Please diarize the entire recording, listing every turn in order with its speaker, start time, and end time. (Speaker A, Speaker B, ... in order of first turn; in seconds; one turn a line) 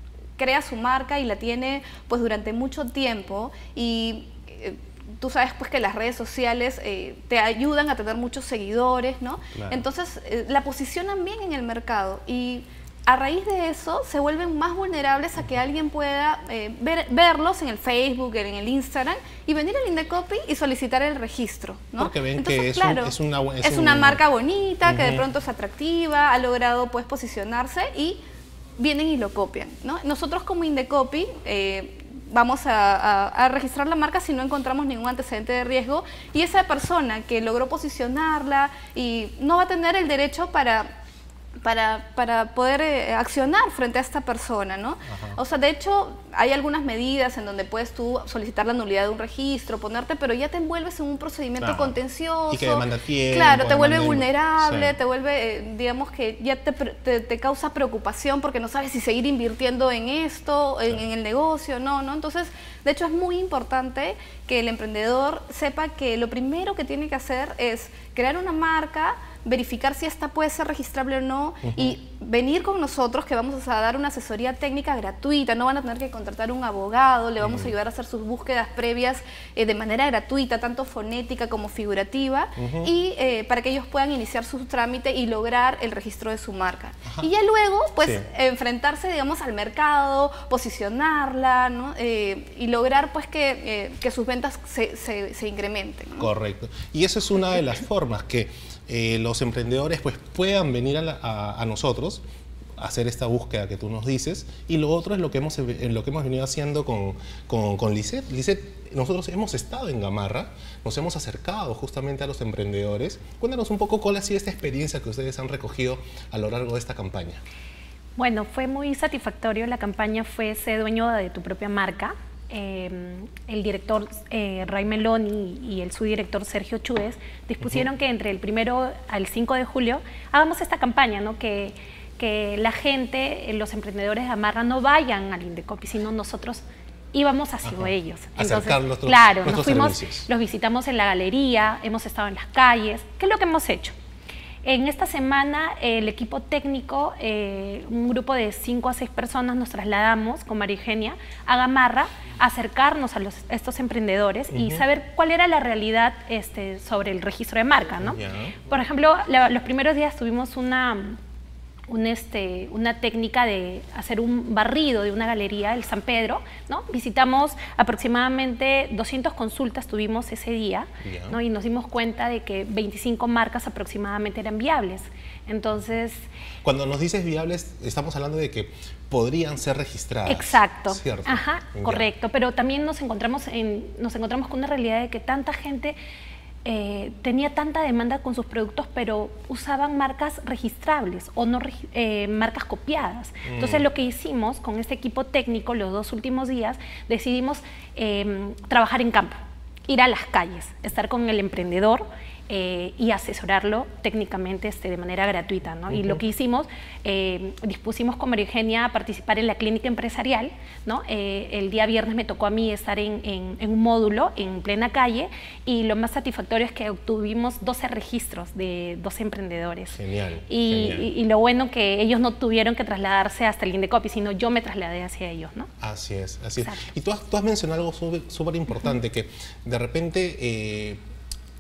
Speaker A: 0.4-28.2
Speaker B: 9.5-9.8
Speaker B: 22.0-24.2
Speaker B: 24.9-25.3
Speaker A: 28.8-40.9
Speaker A: 41.6-96.3
Speaker B: 45.0-45.4
Speaker B: 51.6-52.0
Speaker B: 52.5-55.0
Speaker B: 71.6-72.0
Speaker B: 77.4-77.8
Speaker B: 82.6-82.9
Speaker B: 96.2-102.2
Speaker B: 102.8-117.4
Speaker C: 118.2-136.6
Speaker C: 137.1-143.9
Speaker B: 137.6-140.3
Speaker C: 144.6-161.2
Speaker B: 154.5-154.8
Speaker B: 158.0-158.6
Speaker C: 161.9-176.3
Speaker B: 171.0-171.4
Speaker B: 176.6-182.1
Speaker C: 180.3-186.0
Speaker C: 186.7-199.4
Speaker B: 193.4-193.9
Speaker C: 199.9-220.0
Speaker B: 205.9-206.2
Speaker B: 219.9-221.1
Speaker C: 220.5-225.7
Speaker B: 225.8-231.0